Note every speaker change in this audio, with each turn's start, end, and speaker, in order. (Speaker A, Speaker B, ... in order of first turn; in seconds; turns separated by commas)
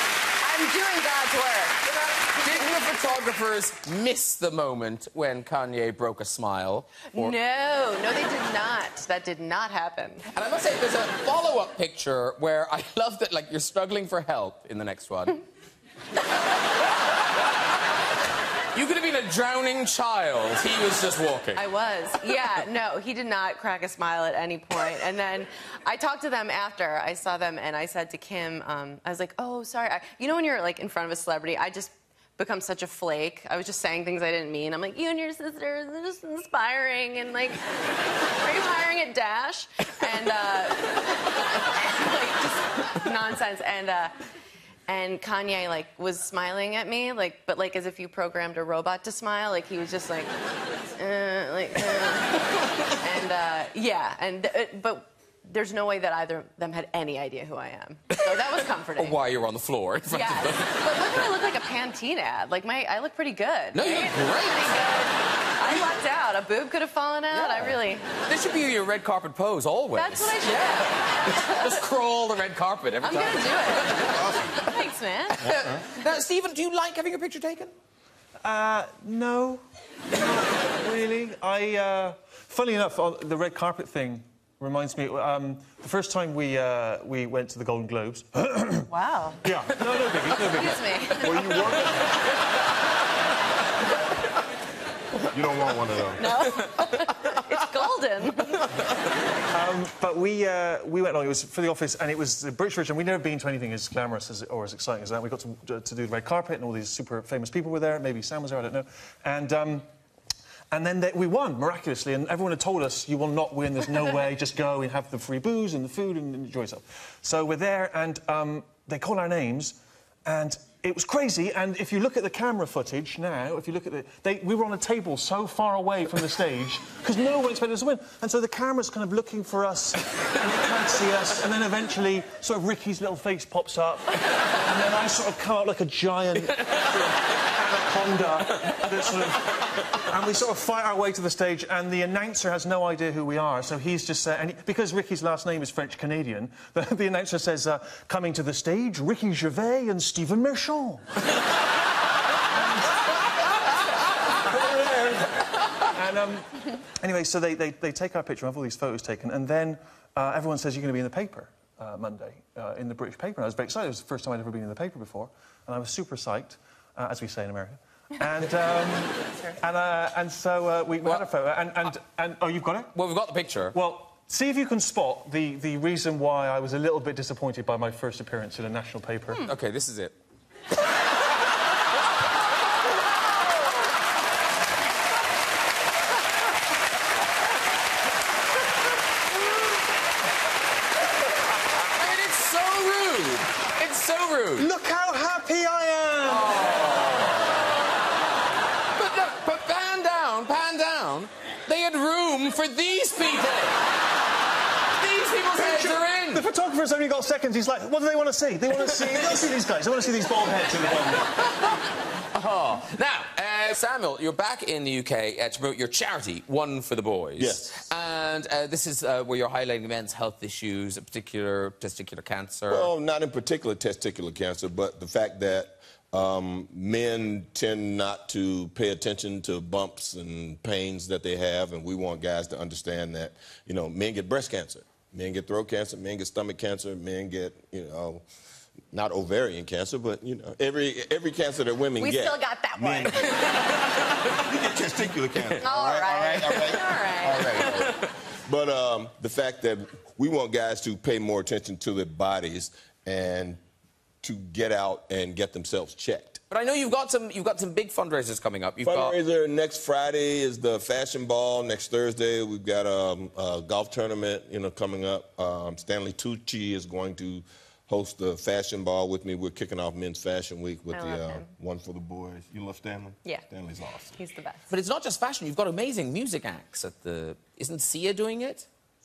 Speaker A: 0.4-1.8, Speaker B: 1.8-7.3, Speaker A: 7.1-10.2, Speaker B: 10.3-15.4, Speaker B: 18.7-21.6, Speaker A: 21.6-37.6, Speaker A: 38.3-44.1, Speaker A: 44.9-50.3, Speaker A: 51.0-52.4, Speaker A: 53.0-59.2, Speaker B: 59.0-61.2, Speaker A: 60.1-68.0, Speaker B: 63.7-64.9, Speaker B: 67.3-67.7, Speaker B: 68.2-74.2, Speaker A: 69.9-71.8, Speaker A: 73.0-73.9, Speaker C: 74.1-74.6, Speaker A: 74.7-75.5, Speaker B: 75.4-77.7, Speaker C: 75.4-75.8, Speaker D: 78.4-88.9, Speaker A: 88.9-89.4, Speaker D: 89.4-91.7, Speaker A: 90.5-91.6, Speaker C: 91.2-92.0, Speaker C: 95.3-96.4, Speaker A: 96.2-98.7, Speaker D: 99.5-109.9, Speaker D: 110.7-151.1, Speaker D: 152.5-153.0, Speaker D: 154.4-155.3, Speaker D: 155.9-172.9, Speaker B: 172.9-173.8, Speaker D: 173.7-179.4, Speaker B: 179.4-180.1, Speaker B: 191.9-194.7, Speaker D: 194.6-196.6, Speaker B: 196.2-197.5, Speaker B: 199.0-203.8, Speaker B: 205.0-206.4, Speaker D: 205.5-211.3, Speaker B: 212.3-222.9, Speaker C: 217.4-217.8, Speaker C: 222.7-238.2, Speaker C: 238.9-243.3, Speaker A: 242.0-243.3, Speaker C: 244.4-253.6, Speaker A: 245.6-247.7, Speaker C: 254.2-256.4, Speaker B: 256.5-259.1, Speaker C: 258.8-274.1, Speaker A: 270.9-271.5, Speaker A: 274.2-274.6, Speaker B: 274.7-278.7